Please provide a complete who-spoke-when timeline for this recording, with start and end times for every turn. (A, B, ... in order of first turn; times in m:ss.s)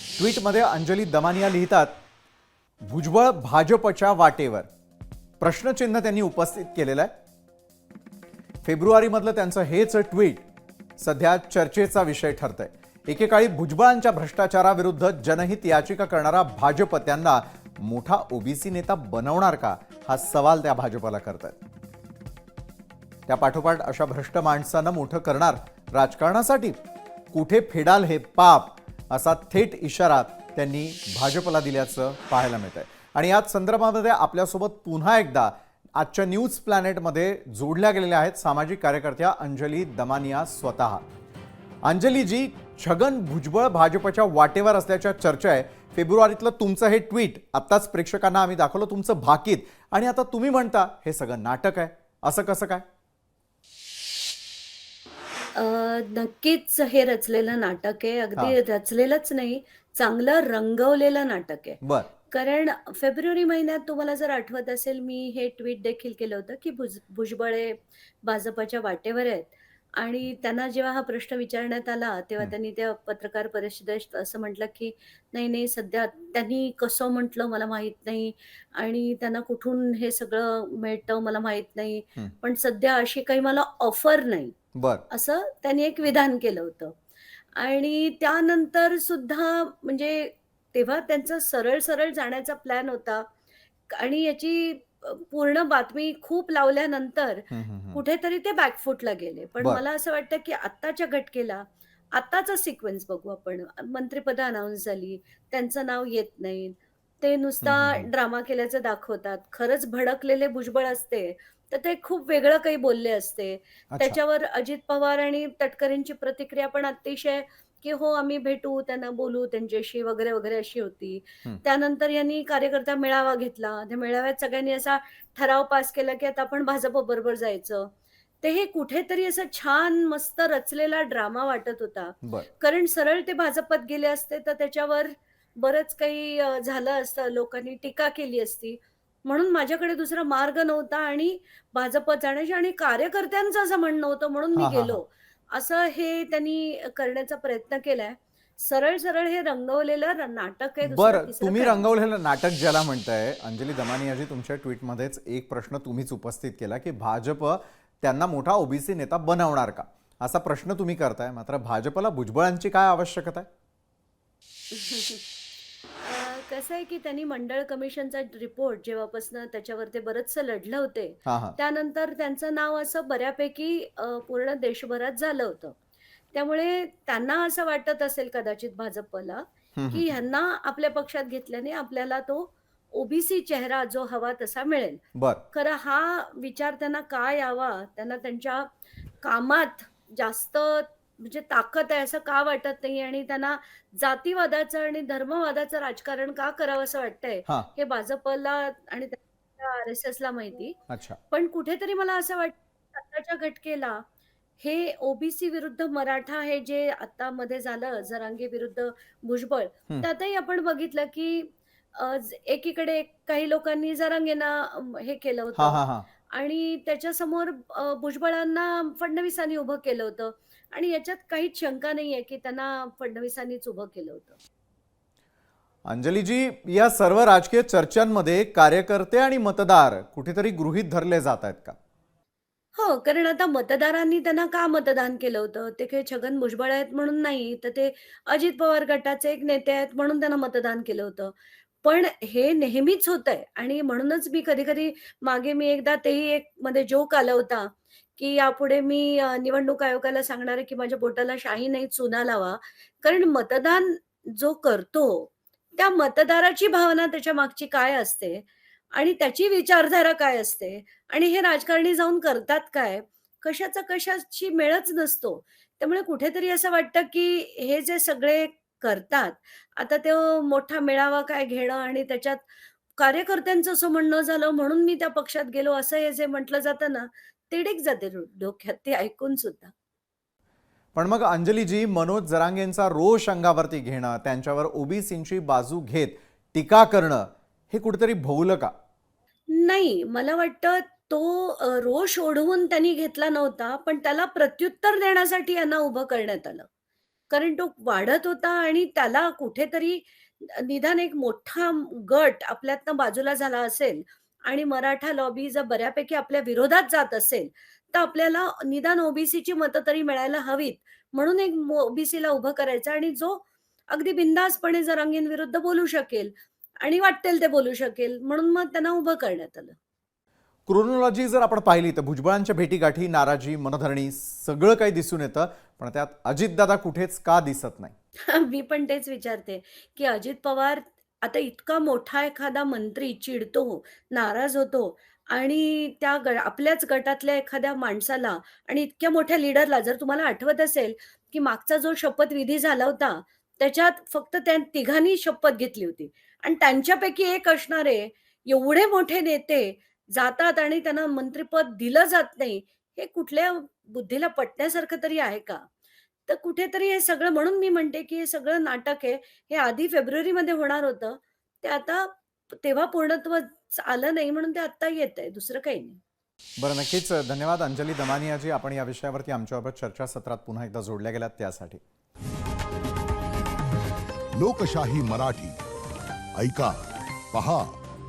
0:00.2-0:01.9 A
0:02.8-0:04.7 A
0:05.4-0:07.1 A
0:08.6-0:10.4 A
0:11.0-0:21.6 A
0:23.3-0:26.8 A
0:27.3-0:41.0 A
0:41.8-0:52.8 A
0:55.6-1:01.8 B
1:01.8-1:02.1 A
1:02.3-1:24.5 B
1:24.8-1:25.0 A
1:25.1-1:26.9 B
1:27.6-1:33.3 B
1:33.9-2:31.9 B
1:37.5-1:38.0 A
1:47.6-1:48.1 A
2:12.2-2:12.5 A
2:24.6-2:25.0 A
2:30.8-2:43.5 A
2:44.7-2:45.3 B
2:46.0-2:55.8 B
2:51.3-2:51.6 A
2:56.3-3:05.0 B
2:59.8-3:00.1 A
3:05.2-3:05.4 A
3:05.5-3:08.7 B
3:09.2-3:20.8 B
3:20.9-3:21.2 A
3:21.3-3:24.0 B
3:24.6-3:44.4 B
3:35.6-3:36.1 A
3:45.8-3:51.8 A
3:52.8-4:39.7 B
4:40.9-4:48.7 A
4:49.5-4:56.7 B
4:57.3-5:19.8 B
5:20.7-5:27.9 A
5:28.3-5:55.6 B
5:56.3-6:06.0 B
6:06.6-6:11.8 A
6:14.4-6:15.6 C
6:16.4-6:16.8 C
6:17.3-6:17.8 C